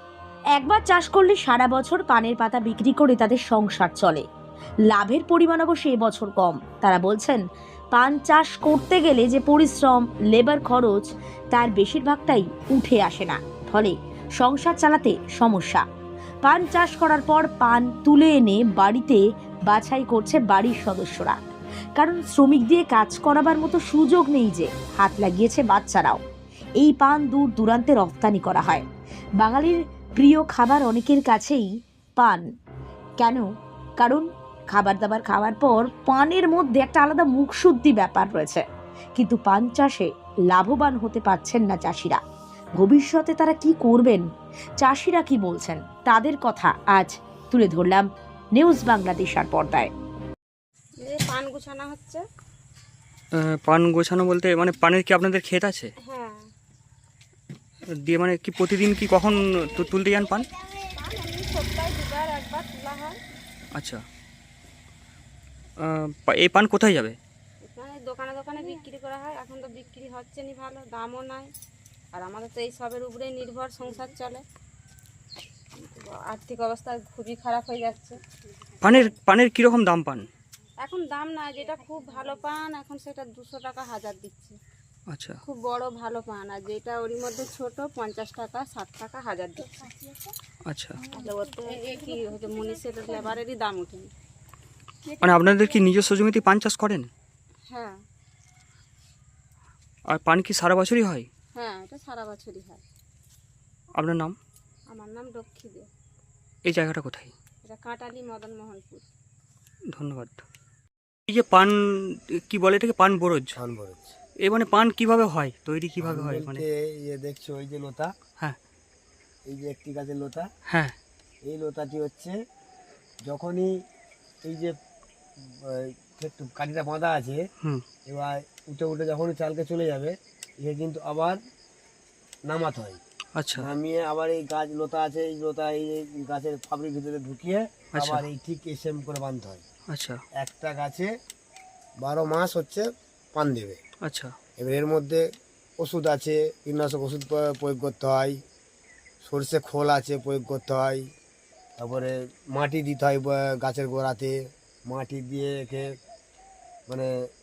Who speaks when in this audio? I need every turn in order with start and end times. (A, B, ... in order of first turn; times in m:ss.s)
0:00.6-0:04.3 A
0:04.9-0:07.4 A
0:07.9-0:15.8 A
0:16.4-0:21.4 A
0:22.0-0:26.2 A
0:26.8-0:28.8 A
0:29.4-0:32.4 A
0:33.2-0:33.5 A
0:34.0-0:38.6 A
0:39.2-0:42.2 A
0:42.8-0:44.3 A
0:44.8-0:49.9 A
0:51.0-0:52.2 B
0:53.4-0:55.9 C
0:56.1-0:56.5 B
0:58.0-1:00.5 C
1:00.9-1:03.2 B
1:03.8-1:04.0 C
1:05.8-1:07.2 C
1:07.7-1:11.5 B
1:12.1-1:14.4 B
1:15.8-1:18.2 B
1:18.8-1:20.3 C
1:20.8-1:24.6 B
1:25.1-1:25.4 C
1:25.5-1:30.1 B
1:30.7-1:31.0 C
1:31.1-1:34.1 B
1:35.2-1:37.1 C
1:37.7-1:38.0 B
1:40.1-1:41.3 C
1:41.6-1:42.8 B
1:44.0-1:44.4 C
1:44.9-1:45.9 B
1:46.7-1:47.3 C
1:47.6-1:49.0 B
1:49.9-1:50.4 C
1:51.3-1:53.6 C
1:53.6-1:54.2 D
1:54.4-1:56.6 C
1:56.0-1:58.1 D
1:59.5-2:00.5 D
2:00.7-2:01.0 C
2:01.5-2:02.4 D
2:03.2-2:03.7 D
2:04.5-2:04.7 D
2:05.5-2:07.4 D
2:08.1-2:11.4 D
2:12.5-2:13.0 D
2:13.4-2:13.7 C
2:13.6-2:19.6 D
2:18.0-2:18.2 C
2:19.9-2:20.2 C
2:20.4-2:21.1 D
2:22.0-2:23.8 D
2:24.0-2:24.4 C
2:24.6-2:25.2 D
2:25.8-2:28.4 D
2:29.2-2:31.0 D
2:31.8-2:34.4 D
2:34.9-2:35.9 D